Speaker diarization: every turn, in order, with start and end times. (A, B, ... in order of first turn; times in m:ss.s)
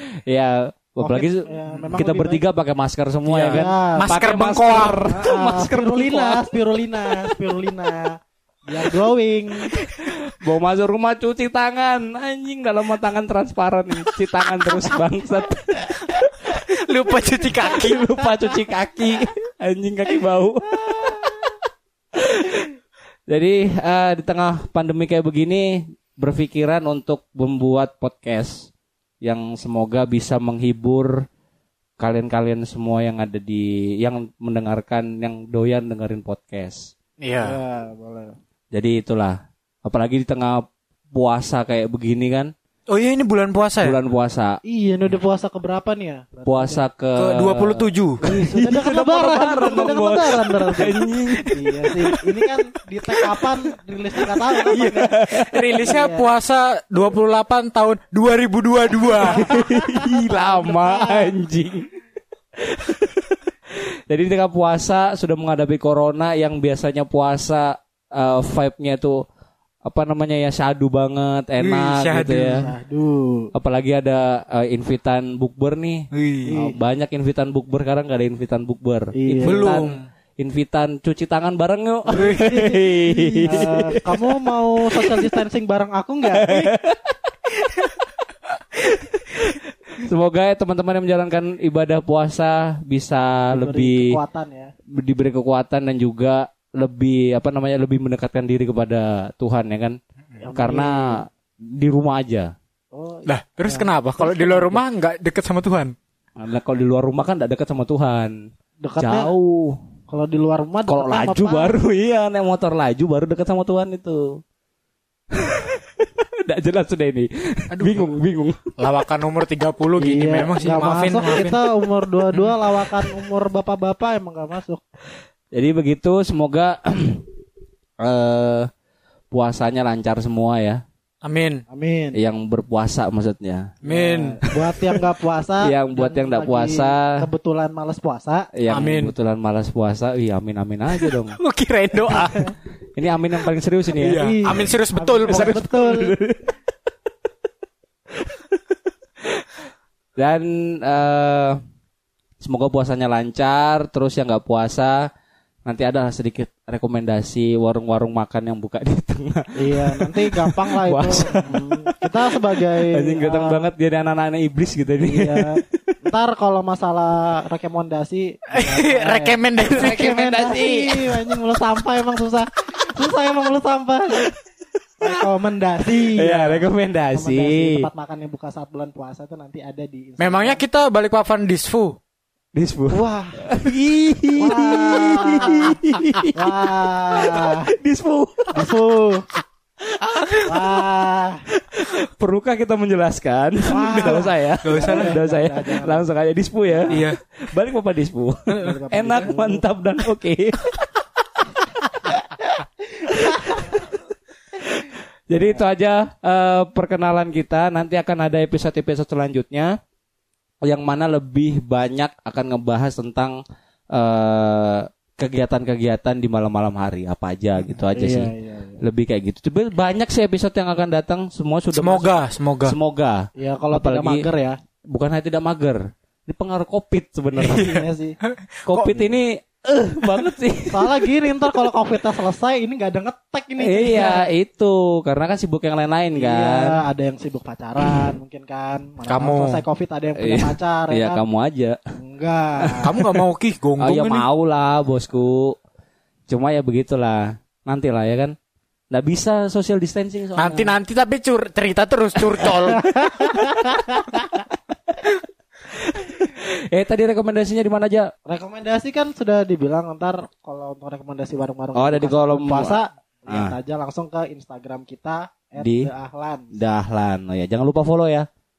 0:00.3-0:06.5 A
0:01.0-0:02.4 B
0:03.2-0:05.1 C
0:03.5-0:04.2 B
0:04.8-0:09.8 B
0:09.7-0:16.6 A
0:16.5-0:18.5 C
0:17.6-0:21.6 A
0:22.2-0:22.7 A
0:23.3-0:28.7 A
0:29.2-0:31.3 A
0:32.0-0:36.9 A
0:37.2-0:37.6 C
0:37.4-0:38.4 B
0:38.7-0:42.5 A
0:42.9-0:44.0 C
0:43.8-0:44.6 A
0:44.6-0:46.9 B
0:46.5-0:52.4 A
0:47.2-0:48.2 C
0:48.2-0:55.2 B
0:53.1-0:53.5 A
0:54.5-0:55.9 A
0:54.8-0:59.7 C
0:55.8-0:56.3 B
0:59.2-1:01.9 A
0:59.9-1:01.4 B
1:02.6-1:09.2 A
1:09.8-1:12.7 A
1:11.6-1:12.7 C
1:12.6-1:13.5 B
1:13.5-1:24.2 A
1:16.1-1:16.5 C
1:16.5-1:16.8 B
1:19.2-1:19.8 B
1:19.4-1:20.0 C
1:22.1-1:23.7 C
1:23.5-1:26.7 B
1:24.9-1:25.3 A
1:26.4-1:27.1 A
1:28.9-1:29.4 A
1:30.0-1:34.2 A
1:33.5-1:34.7 B
1:34.9-1:40.0 A
1:40.4-1:41.2 B
1:40.5-1:42.5 A
1:42.9-1:44.8 B
1:43.3-1:46.0 C
1:46.4-1:48.4 A
1:48.8-1:49.4 B
1:49.0-1:49.8 A
1:50.1-1:51.8 B
1:50.9-1:54.4 A
1:55.3-1:58.6 A
1:57.7-1:58.2 C
1:58.8-2:01.6 C
2:00.0-2:04.8 B
2:05.5-2:07.2 A
2:08.0-2:08.7 A
2:09.3-2:10.8 A
2:11.2-2:11.6 C
2:11.7-2:12.2 B
2:12.1-2:13.7 A
2:13.8-2:14.4 C
2:13.9-2:18.5 B
2:14.5-2:14.9 A
2:15.6-2:17.3 A
2:18.5-2:21.4 A
2:18.7-2:19.1 C
2:20.9-2:22.6 C
2:23.0-2:24.3 A
2:23.9-2:25.6 C
2:24.2-2:26.2 B
2:25.3-2:26.5 A
2:30.2-2:31.6 A
2:32.4-2:35.0 A
2:35.7-2:45.6 A
2:39.6-2:43.7 B
2:45.0-2:54.3 B
2:48.5-2:50.6 C
2:49.6-2:51.4 A
2:55.0-3:00.6 B
2:56.0-2:57.9 A
3:00.2-3:02.0 C
3:02.5-3:08.7 A
3:02.9-3:03.5 B
3:04.4-3:05.8 B
3:06.3-3:07.7 B
3:08.5-3:09.3 B
3:09.9-3:11.1 A
3:10.4-3:11.4 B
3:11.6-3:20.8 A
3:13.7-3:16.1 B
3:14.6-3:15.2 C
3:16.7-3:17.1 B
3:16.9-3:17.2 C
3:18.5-3:18.8 C
3:18.6-3:19.7 B
3:22.0-3:22.4 A
3:23.1-3:23.8 B
3:23.1-3:23.9 A
3:24.6-3:29.7 A
3:30.6-3:33.4 A
3:33.9-3:44.3 A
3:37.9-3:38.8 B
3:41.7-3:42.8 C
3:43.4-3:44.6 B
3:44.9-3:47.8 A
3:47.4-3:49.1 C
3:47.6-3:48.2 B
3:48.6-3:51.1 A
3:50.7-3:54.3 B
3:53.6-3:56.8 A
3:56.1-4:01.2 B
3:59.0-3:59.6 C
4:00.2-4:01.8 A
4:02.0-4:02.9 B
4:02.7-4:03.2 A
4:02.8-4:04.3 C
4:03.8-4:05.6 A
4:06.3-4:08.4 A
4:08.9-4:10.8 A
4:10.4-4:13.2 C
4:12.8-4:14.3 B
4:13.9-4:15.1 A
4:15.7-4:18.1 A
4:18.3-4:26.6 B
4:21.8-4:23.6 A
4:25.6-4:25.9 A
4:26.5-4:28.3 A